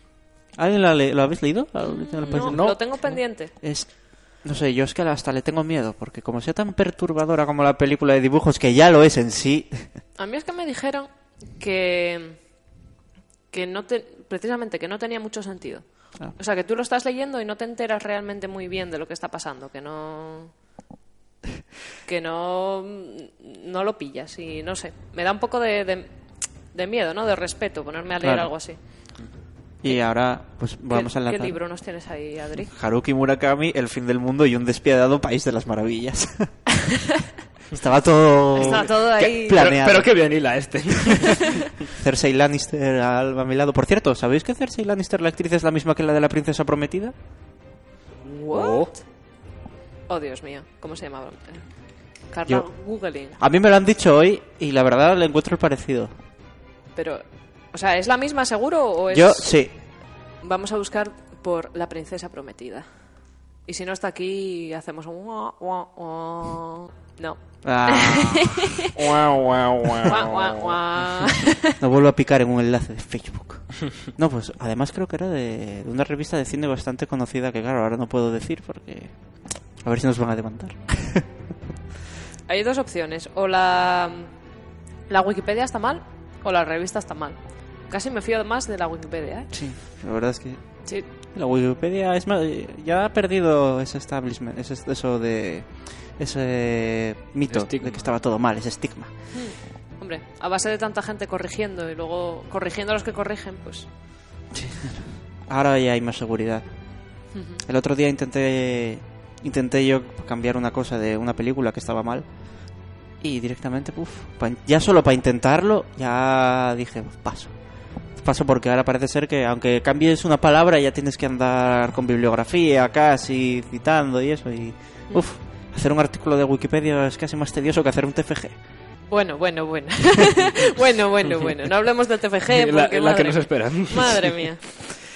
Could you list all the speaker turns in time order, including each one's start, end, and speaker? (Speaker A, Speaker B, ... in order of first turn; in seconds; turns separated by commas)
Speaker A: 0.6-10.0, Speaker B: 1.8-3.5, Speaker C: 2.3-2.8, Speaker B: 10.2-12.5, Speaker B: 13.5-20.6, Speaker B: 22.0-29.2, Speaker A: 28.2-31.6, Speaker B: 29.9-32.7, Speaker A: 32.7-36.6, Speaker A: 37.7-40.1, Speaker B: 38.6-39.6, Speaker C: 38.6-41.6, Speaker A: 41.3-47.1, Speaker B: 48.3-49.0, Speaker C: 48.5-48.9, Speaker B: 50.1-53.4, Speaker A: 53.3-56.1, Speaker B: 57.0-68.9, Speaker A: 59.1-59.8, Speaker A: 67.6-68.7, Speaker C: 69.0-70.7, Speaker B: 70.0-71.8, Speaker A: 71.8-81.3, Speaker B: 82.5-84.3, Speaker B: 85.1-89.5, Speaker A: 89.5-99.3, Speaker C: 97.5-98.1, Speaker B: 99.3-103.9, Speaker A: 104.5-106.7, Speaker B: 107.3-107.6, Speaker A: 107.6-112.3, Speaker A: 113.2-117.5, Speaker A: 118.2-128.6, Speaker B: 129.1-134.6, Speaker C: 132.5-134.5